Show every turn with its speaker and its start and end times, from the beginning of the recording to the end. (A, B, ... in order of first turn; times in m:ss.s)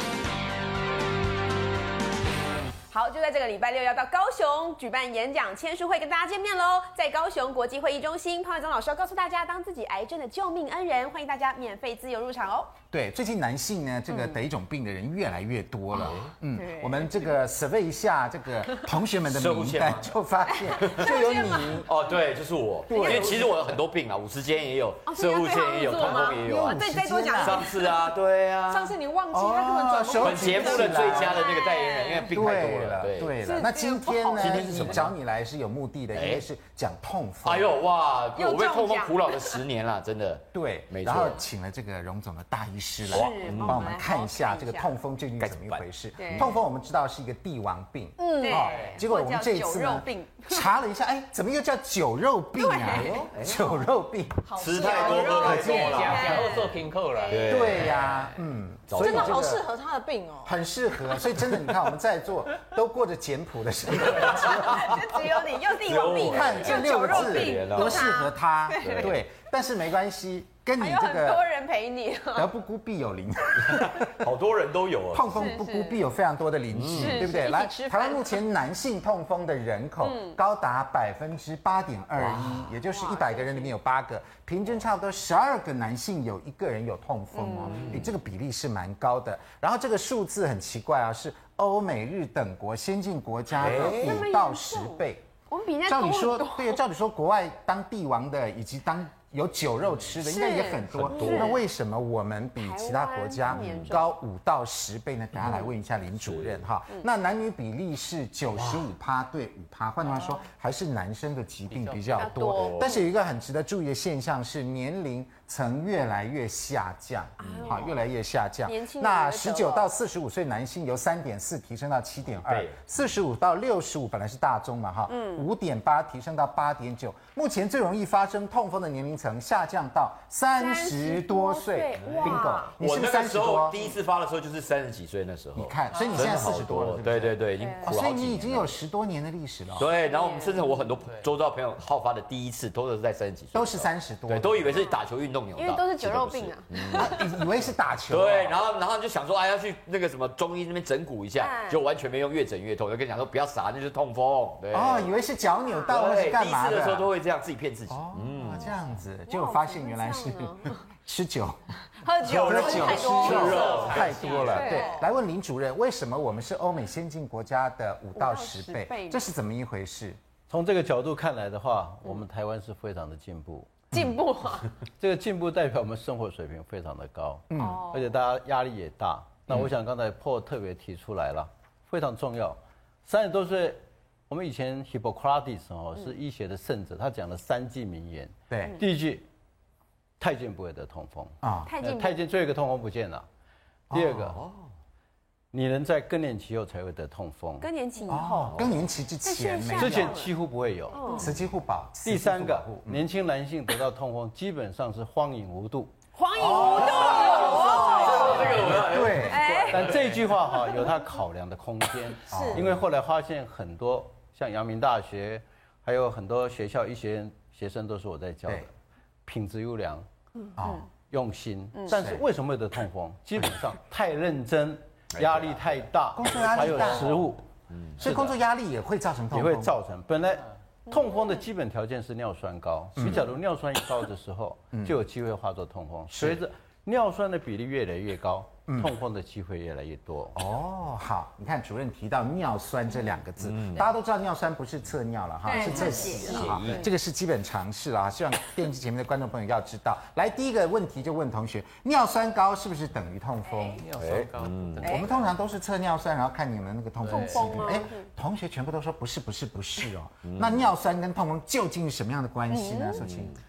0:02.9-0:12.8 A
0:12.9-0:21.9 B
0:16.0-0:16.3 C
0:16.1-0:17.3 A
0:19.2-0:20.1 C
0:20.6-0:21.9 A
0:20.8-0:29.0 C
0:22.9-0:23.6 B
0:22.9-0:23.3 A
0:25.0-0:28.0 A
0:26.0-0:27.6 B
0:28.7-0:31.3 D
0:29.3-0:31.6 B
0:30.1-0:33.4 C
0:31.2-0:32.3 A
0:32.3-0:37.7 B
0:33.4-0:35.0 A
0:34.4-0:35.1 C
0:36.1-0:36.4 C
0:37.4-0:41.4 C
0:38.3-0:39.6 A
0:40.5-0:54.6 B
0:43.1-0:44.9 A
0:43.1-0:44.0 C
0:45.4-0:46.6 C
0:46.2-0:46.5 A
0:48.2-0:50.7 A
0:48.3-0:48.7 D
0:52.6-0:53.2 A
0:53.2-0:53.7 C
0:54.4-0:56.5 D
0:54.6-0:56.6 C
0:54.8-0:57.5 A
0:55.3-0:58.3 E
0:57.3-0:58.1 C
0:57.5-0:59.7 B
0:58.9-0:59.4 C
0:59.0-1:00.5 D
1:00.4-1:05.2 B
1:04.3-1:04.8 C
1:04.4-1:09.1 A
1:05.8-1:08.1 C
1:06.1-1:11.5 B
1:08.8-1:09.2 C
1:10.8-1:12.5 A
1:12.3-1:14.3 B
1:13.7-1:15.6 C
1:15.1-1:35.3 B
1:15.3-1:16.0 A
1:16.7-1:17.4 C
1:16.9-1:18.4 A
1:20.0-1:20.4 A
1:22.9-1:23.7 A
1:27.3-1:28.0 A
1:27.6-1:28.1 C
1:33.5-1:34.3 C
1:33.6-1:36.8 A
1:35.8-2:13.9 B
1:40.2-1:41.6 A
1:40.8-1:41.6 C
1:42.6-1:44.1 A
1:43.5-1:44.0 C
1:46.2-1:46.6 C
1:48.6-1:48.9 C
1:51.7-1:52.5 E
1:52.2-1:53.0 A
1:52.4-1:52.9 C
1:57.4-1:58.0 A
1:57.4-1:57.9 C
1:58.6-1:59.9 A
2:02.4-2:02.8 C
2:05.1-2:05.4 A
2:10.6-2:12.7 A
2:12.0-2:18.7 C
2:15.6-2:19.9 B
2:15.9-2:16.3 E
2:17.6-2:18.0 A
2:19.7-2:27.5 C
2:19.9-2:20.9 A
2:23.5-2:24.9 B
2:25.5-2:27.3 A
2:26.9-2:28.6 B
2:28.1-2:35.1 C
2:31.4-2:31.8 A
2:34.7-2:37.1 B
2:35.6-2:35.9 A
2:35.8-2:38.8 C
2:37.9-2:41.7 B
2:39.2-2:40.8 A
2:42.0-2:43.7 A
2:42.2-2:44.5 C
2:42.2-2:50.2 B
2:43.2-2:44.6 E
2:44.4-2:45.0 A
2:44.5-2:45.0 D
2:48.1-2:49.2 A
2:50.5-2:53.8 F
2:53.9-2:54.2 B
2:53.9-2:54.7 A
2:55.0-3:09.2 F
2:57.5-2:57.8 B
2:57.5-2:58.1 A
3:08.5-3:08.8 B
3:10.2-3:13.2 F
3:11.4-3:11.7 B
3:11.6-3:12.2 A
3:13.9-3:14.4 B
3:13.9-3:14.4 F
3:14.4-3:14.6 C
3:15.5-3:17.7 F
3:17.6-3:18.6 A
3:18.0-3:20.2 B
3:18.3-3:18.7 C
3:19.2-3:20.3 A
3:19.7-3:21.1 F
3:20.9-3:21.3 A
3:21.1-3:23.0 B
3:22.0-3:25.9 F
3:26.1-3:29.9 A
3:26.3-3:29.5 B
3:26.4-3:30.1 C
3:29.6-3:38.7 F
3:32.3-3:32.6 D
3:32.3-3:32.8 B
3:39.2-3:40.0 F
3:40.6-3:40.8 B
3:41.1-3:47.4 F
3:41.9-3:42.2 B
3:45.1-3:45.8 C
3:46.1-3:47.2 B
3:46.5-3:48.0 C
3:48.0-3:49.7 B
3:48.0-3:48.4 F
3:49.3-4:00.4 F
3:53.0-3:53.2 B
3:54.7-3:55.0 B
3:56.1-3:56.4 B
3:58.7-3:58.9 B
4:00.3-4:13.8 B
4:03.4-4:03.9 C
4:05.4-4:06.6 A
4:06.1-4:06.9 C
4:13.8-4:15.3 E
4:14.0-4:15.0 C
4:14.8-4:23.3 B
4:17.1-4:18.0 A
4:17.1-4:17.7 E
4:20.2-4:20.7 C
4:22.5-4:23.0 D
4:23.0-4:23.4 C